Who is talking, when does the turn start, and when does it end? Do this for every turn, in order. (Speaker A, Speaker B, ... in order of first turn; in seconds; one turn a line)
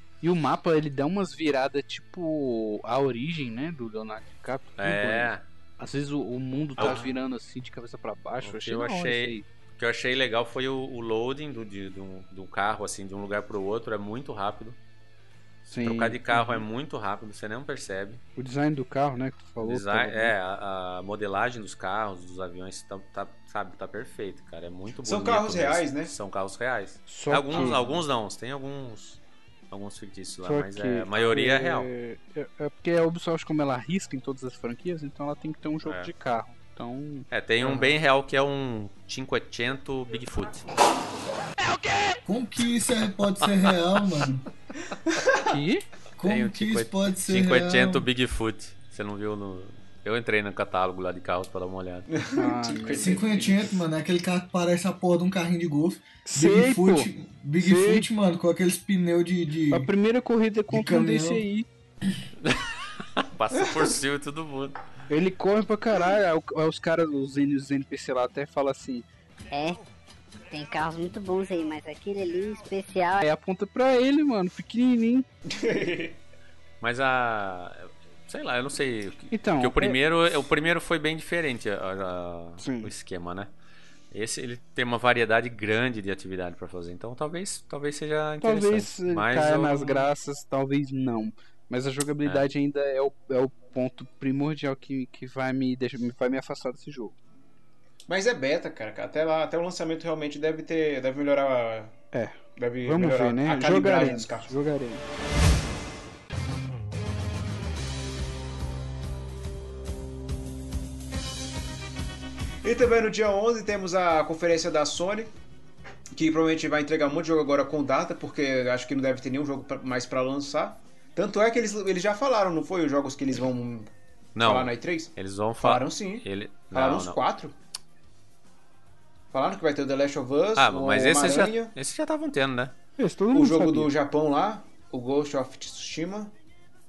Speaker A: 0.2-9.4
Speaker B: 4.8-5.4
Speaker C: 6.8-7.2
Speaker B: 8.4-14.8
Speaker A: 15.7-16.6
Speaker B: 15.8-18.2
Speaker A: 18.4-20.3
Speaker B: 19.6-31.9
Speaker C: 25.0-26.1
Speaker A: 27.1-27.8
Speaker C: 27.5-28.0
Speaker A: 30.4-37.3
Speaker B: 35.8-36.1
Speaker B: 37.3-40.7
Speaker C: 37.6-37.9
Speaker D: 42.2-44.5
Speaker C: 45.1-45.5
Speaker A: 45.4-45.8
Speaker D: 46.2-48.0
Speaker B: 46.2-52.1
Speaker C: 52.1-53.7
Speaker A: 52.4-53.2
Speaker D: 53.0-59.9
Speaker A: 56.2-57.1
Speaker A: 57.6-58.1
Speaker A: 59.7-61.7
Speaker D: 60.7-61.4
Speaker B: 63.1-64.8
Speaker A: 65.1-69.0
Speaker E: 69.5-69.8
Speaker E: 70.5-73.2
Speaker A: 73.2-75.2
Speaker C: 75.5-76.2
Speaker B: 76.8-83.5
Speaker A: 79.3-80.0
Speaker A: 82.6-82.9
Speaker B: 84.1-90.1
Speaker A: 88.4-97.1
Speaker C: 98.1-101.9
Speaker A: 102.1-105.0
Speaker C: 102.5-104.5
Speaker C: 112.6-115.3
Speaker C: 116.1-123.9
Speaker B: 124.3-127.2
Speaker C: 124.4-127.5
Speaker C: 129.3-131.7
Speaker B: 130.6-132.7
Speaker A: 133.0-133.9
Speaker C: 133.3-136.3